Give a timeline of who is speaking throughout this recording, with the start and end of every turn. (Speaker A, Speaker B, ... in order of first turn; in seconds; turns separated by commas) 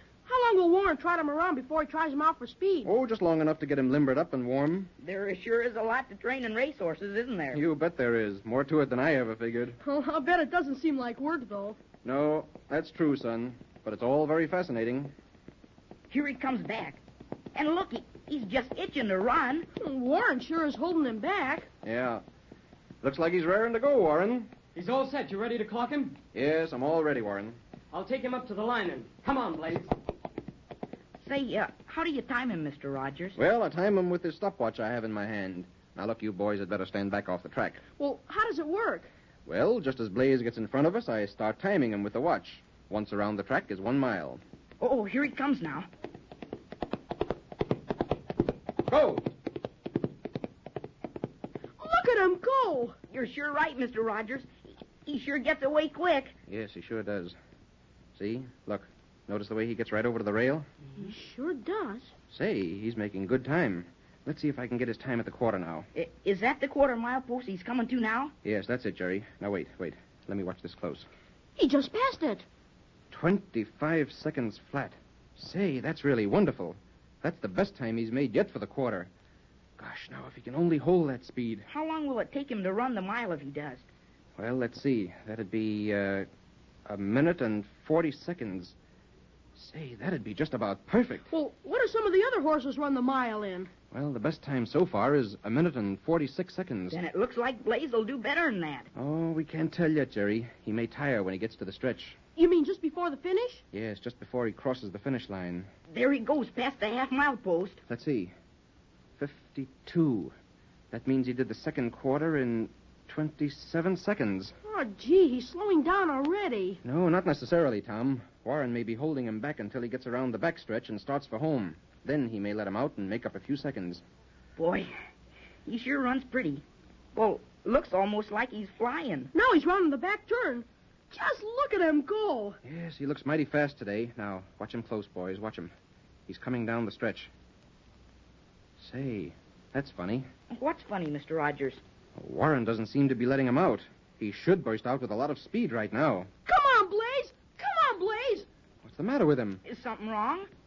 Speaker A: 0.2-2.9, Speaker B: 2.8-4.9, Speaker C: 5.0-7.6, Speaker B: 7.5-9.8, Speaker A: 9.8-11.8, Speaker B: 12.0-15.1, Speaker C: 16.1-17.0, Speaker C: 17.5-19.7, Speaker A: 19.8-21.7, Speaker B: 21.8-22.2, Speaker B: 23.0-24.5, Speaker D: 24.7-26.1, Speaker B: 26.3-27.6, Speaker D: 27.9-29.9, Speaker C: 31.2-33.4, Speaker B: 33.4-37.8, Speaker A: 38.0-39.1, Speaker B: 39.5-44.4, Speaker C: 44.8-45.9, Speaker B: 48.9-49.2, Speaker A: 51.8-52.9, Speaker C: 53.1-54.5, Speaker C: 55.0-56.3, Speaker B: 56.5-57.4, Speaker B: 58.1-60.6, Speaker A: 61.0-62.1, Speaker B: 62.3-65.9, Speaker C: 65.9-68.3, Speaker B: 68.4-71.1, Speaker A: 71.6-72.4, Speaker B: 73.1-79.1, Speaker B: 79.8-81.7, Speaker C: 81.7-83.8, Speaker B: 84.4-86.3, Speaker B: 86.8-88.7, Speaker B: 89.5-91.3, Speaker A: 91.3-93.7, Speaker B: 93.9-97.0, Speaker C: 96.9-98.9, Speaker B: 98.9-102.2, Speaker A: 102.4-103.6, Speaker B: 103.7-105.7, Speaker C: 105.9-107.8, Speaker B: 107.9-108.3, Speaker B: 109.2-110.3, Speaker B: 110.9-114.5, Speaker A: 114.7-116.8, Speaker B: 116.8-124.0, Speaker C: 124.6-124.9, Speaker C: 125.7-126.6, Speaker C: 127.1-129.3, Speaker A: 129.3-132.6, Speaker B: 132.6-135.7, Speaker B: 136.3-137.3, Speaker B: 138.8-140.3, Speaker C: 140.5-141.8, Speaker B: 142.2-146.3, Speaker A: 146.4-148.4, Speaker B: 148.8-149.6, Speaker C: 149.6-150.5